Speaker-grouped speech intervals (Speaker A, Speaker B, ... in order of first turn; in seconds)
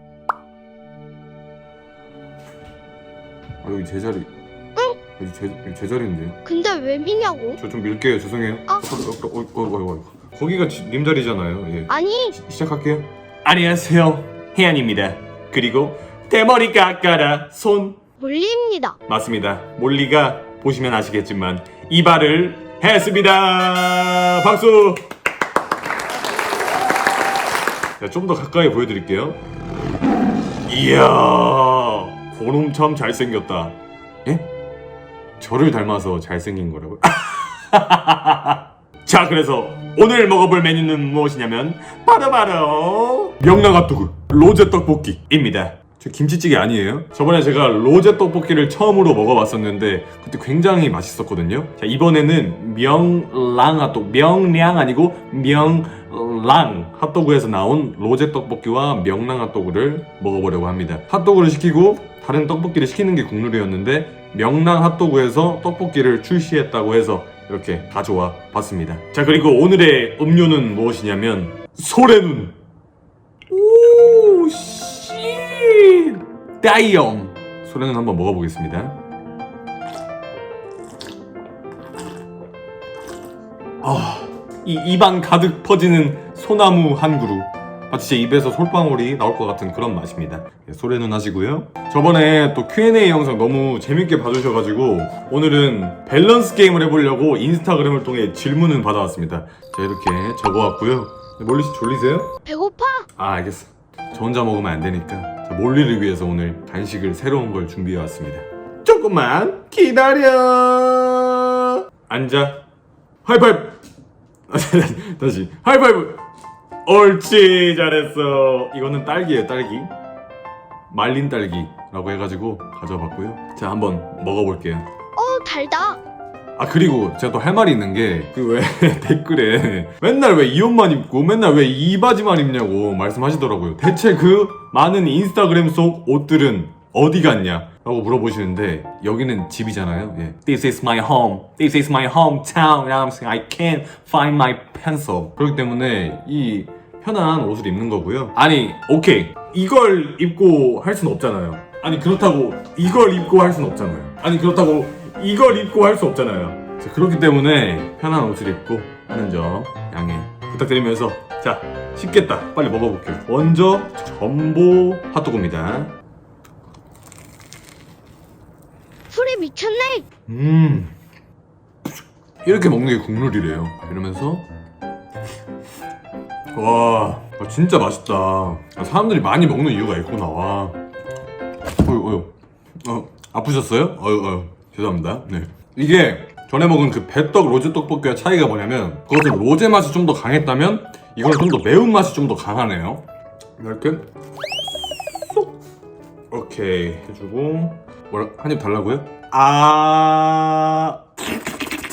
Speaker A: 3.6-4.3, 5.2-6.4, 7.6-18.0, 19.1-25.1, 28.0-29.4, 30.7-34.5, 35.4-72.6, 73.5-79.0, 83.8-102.3, 103.2-112.6, 113.2-113.8, 114.5-116.2, 116.8-119.9, 120.9-124.9, 126.6-165.9, 170.3-170.9, 172.4-174.5, 176.5-180.8, 181.8-182.3, 182.8-193.0, 193.6-194.1, 194.9-195.5, 196.3-201.4
Speaker B: 6.5-7.6, 11.9-12.3, 18.2-19.0, 102.5-103.1, 125.2-126.0, 169.1-170.1